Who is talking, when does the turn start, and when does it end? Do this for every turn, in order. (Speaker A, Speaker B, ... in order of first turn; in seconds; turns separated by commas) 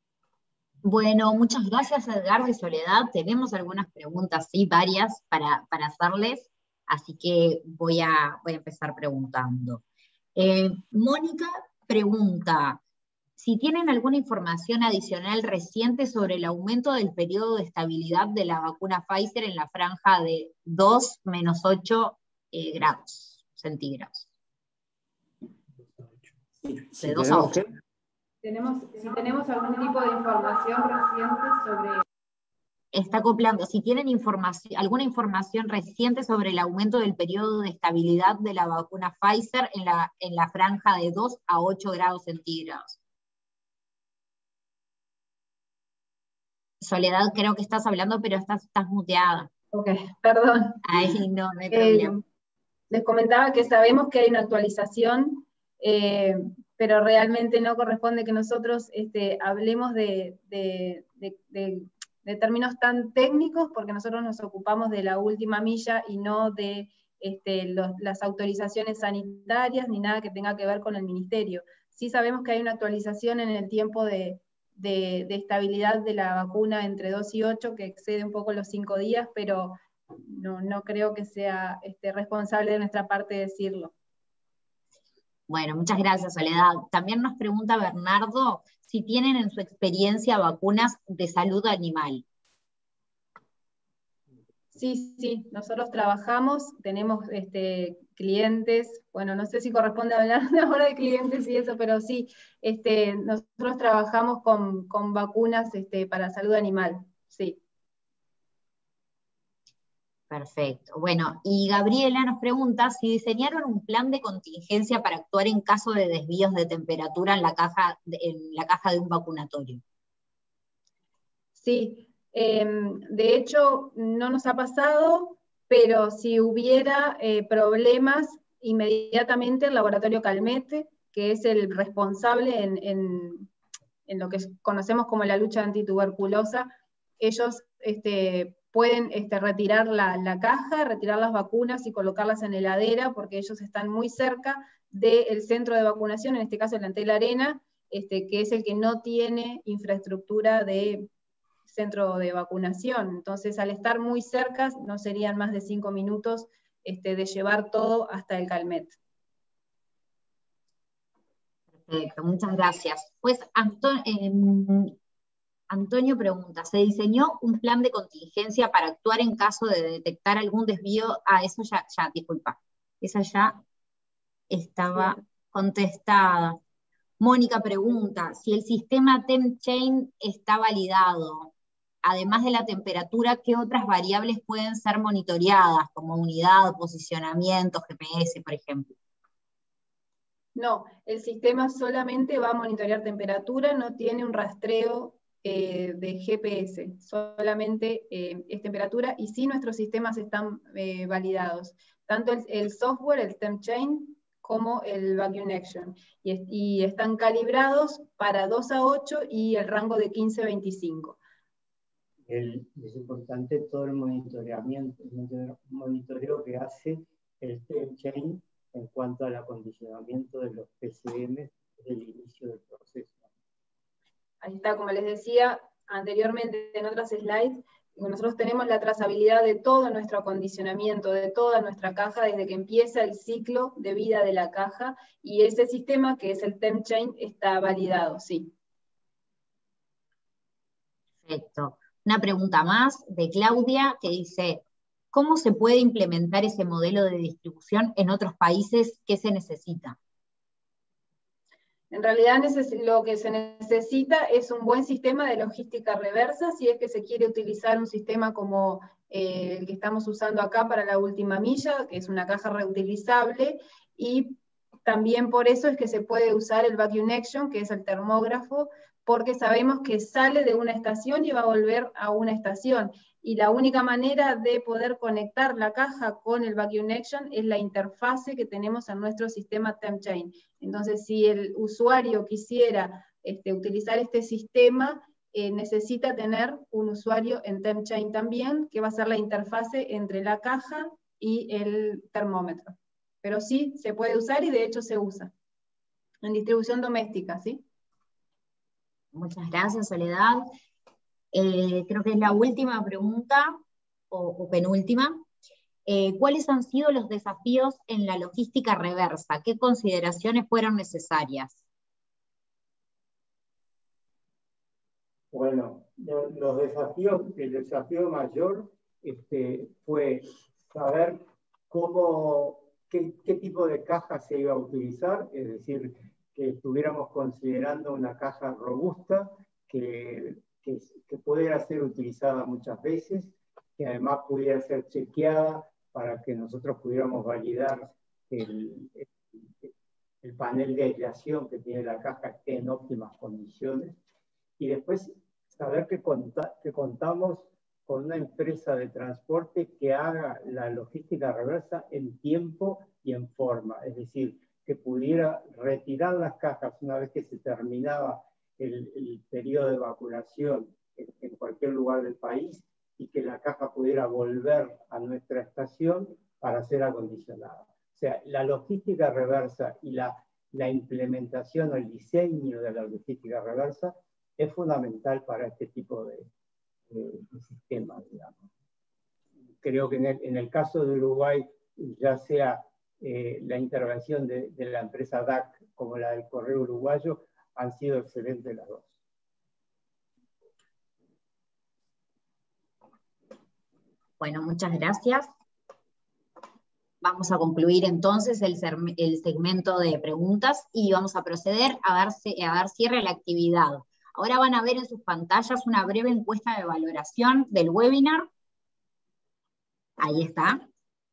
Speaker A: 0.8-9.8, Speaker A: 10.3-12.8, Speaker A: 13.4-24.3, Speaker B: 26.6-27.6, Speaker A: 27.0-27.6, Speaker C: 28.4-32.0, Speaker A: 32.9-43.0, Speaker A: 46.8-49.5, Speaker C: 49.7-50.8, Speaker A: 50.8-52.2, Speaker C: 51.7-52.2, Speaker C: 52.9-83.9, Speaker A: 85.5-92.2, Speaker C: 94.7-107.6, Speaker A: 110.3-119.8, Speaker C: 121.5-133.5, Speaker C: 134.1-151.1, Speaker C: 151.6-159.0, Speaker A: 161.8-164.9, Speaker A: 165.7-173.6, Speaker A: 174.5-176.6, Speaker A: 177.2-181.5, Speaker A: 182.0-188.9, Speaker C: 190.5-211.2, Speaker B: 212.3-223.2, Speaker C: 224.4-238.5, Speaker A: 241.2-250.0, Speaker C: 251.9-295.3, Speaker C: 296.2-297.6, Speaker A: 299.1-300.4, Speaker A: 301.3-305.2, Speaker A: 305.9-311.6, Speaker B: 315.3-339.1, Speaker B: 340.2-344.0, Speaker B: 344.6-376.3, Speaker B: 376.9-378.4, Speaker B: 379.6-388.9, Speaker A: 394.2-395.3, Speaker A: 397.0-408.3, Speaker A: 410.0-410.6